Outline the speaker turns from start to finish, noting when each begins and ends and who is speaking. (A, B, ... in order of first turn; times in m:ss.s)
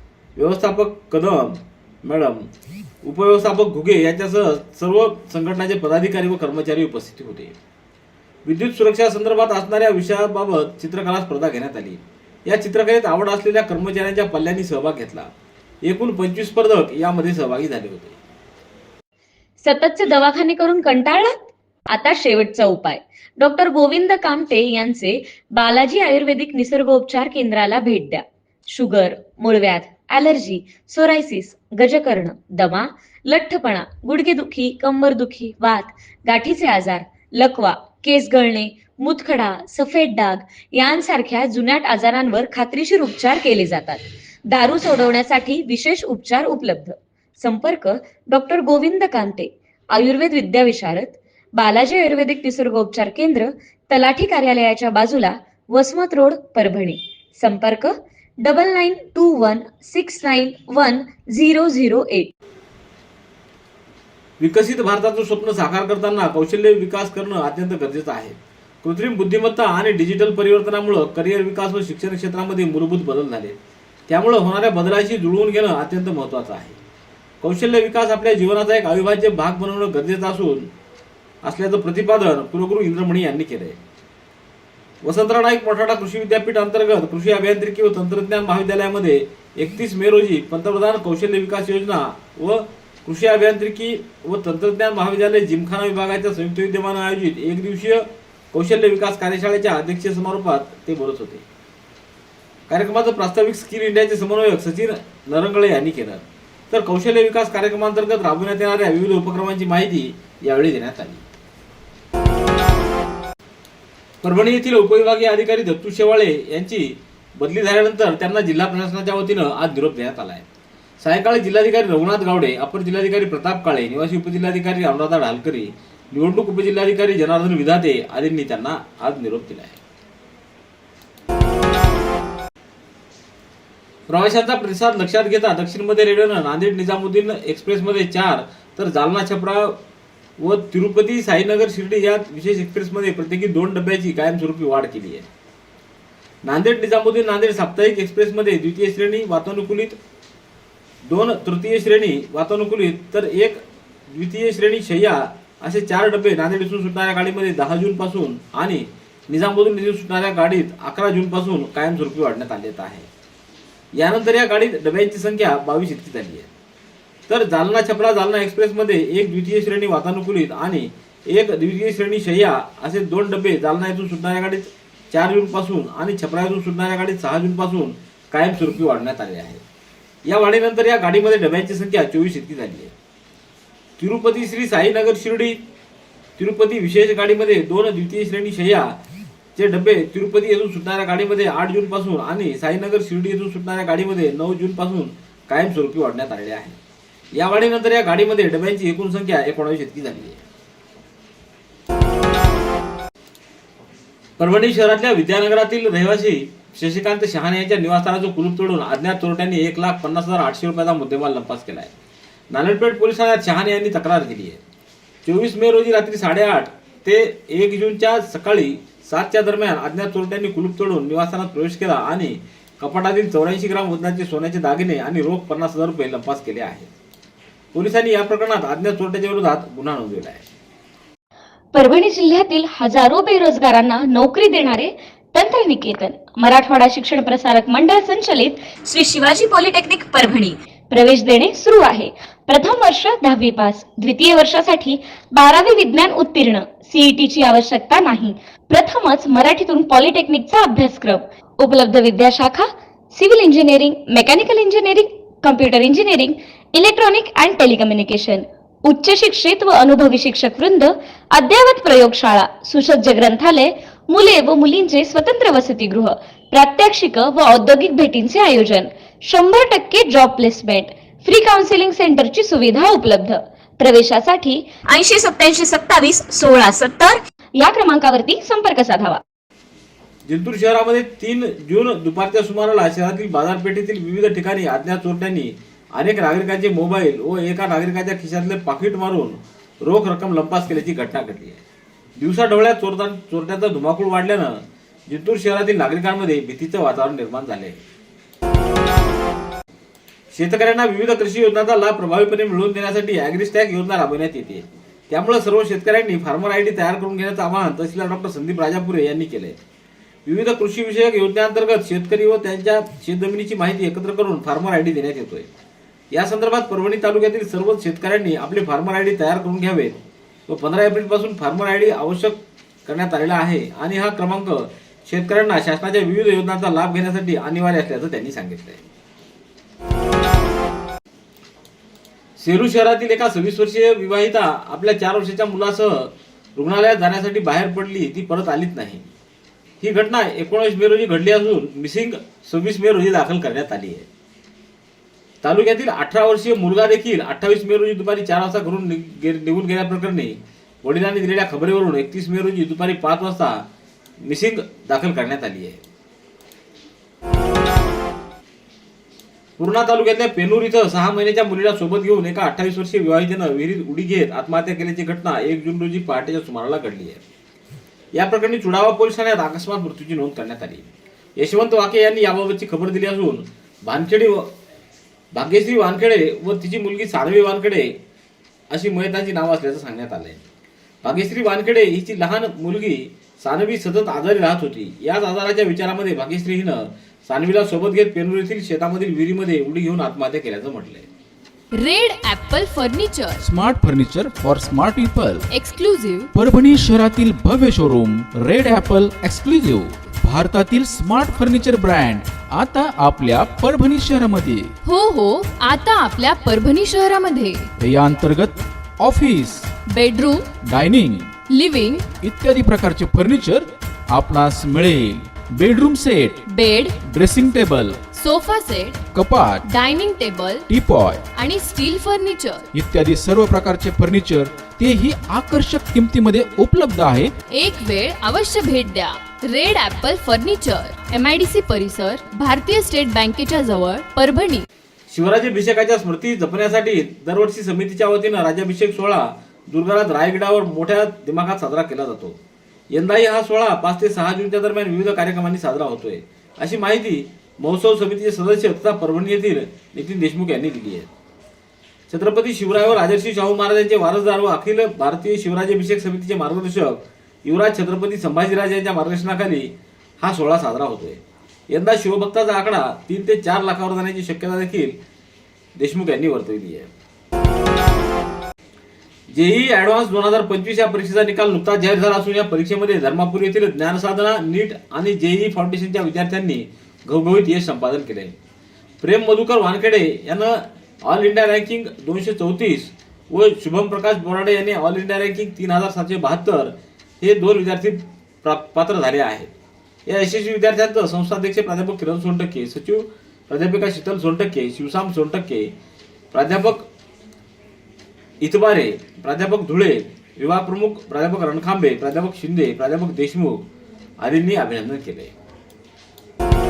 0:00.4-0:02.5 A
0:03.0-0:07.6 A
0:08.4-0:15.3 A
0:15.8-0:18.2 A
0:19.6-0:21.3 B
0:21.9-1:02.3 B
1:04.4-1:13.6 A
1:14.1-1:16.8 A
1:17.4-1:20.7 A
1:21.4-1:23.8 A
1:25.0-1:41.4 A
1:42.7-1:51.2 A
1:54.2-2:00.5 A
2:01.0-2:09.8 A
2:14.1-2:19.8 A
2:20.4-2:25.3 A
2:26.4-2:30.0 A
2:31.1-2:43.1 A
2:44.0-2:46.5 A
2:47.3-2:59.6 A
3:00.3-3:02.9 A
3:04.0-3:05.6 A
3:06.4-3:09.0 A
3:09.6-3:16.8 A
3:17.3-3:20.4 A
3:24.4-3:31.9 A
3:32.5-3:34.6 A
3:35.2-3:46.9 A
3:47.7-3:50.4 A
3:51.7-4:39.2 B
4:40.3-4:51.6 A
4:52.2-4:57.8 A
5:00.3-5:09.6 A
5:10.3-5:15.5 A
5:16.1-5:28.8 A
5:32.4-5:39.1 A
5:39.8-5:44.1 A
5:45.4-5:53.6 A
5:54.2-5:55.8 A
5:59.6-6:07.2 A
6:08.1-6:14.5 A
6:15.3-6:18.0 A
6:18.7-6:20.4 A
6:21.0-6:31.1 A
6:31.8-6:33.4 C
6:33.4-6:35.5 D
6:35.5-6:36.3 C
6:36.3-6:44.7 D
6:44.8-6:47.7 C
6:47.8-6:49.7 D
6:49.9-6:50.5 C
6:50.6-6:51.3 D
6:51.5-6:52.1 C
6:52.2-6:56.4 D
6:56.5-6:57.0 C
6:57.0-6:58.0 D
6:58.1-6:59.0 C
6:59.1-6:59.7 D
6:59.6-7:00.7 C
7:00.7-7:01.3 D
7:01.4-7:02.7 C
7:02.7-7:07.3 D
7:07.5-7:14.6 C
7:15.1-7:22.4 A
7:22.9-7:31.1 A
7:32.1-7:45.0 A
7:45.8-7:46.9 A
7:49.3-7:58.4 A
7:59.0-8:09.5 A
8:10.1-8:15.7 A
8:16.3-8:16.9 A
8:18.4-8:23.6 A
8:24.2-8:25.3 A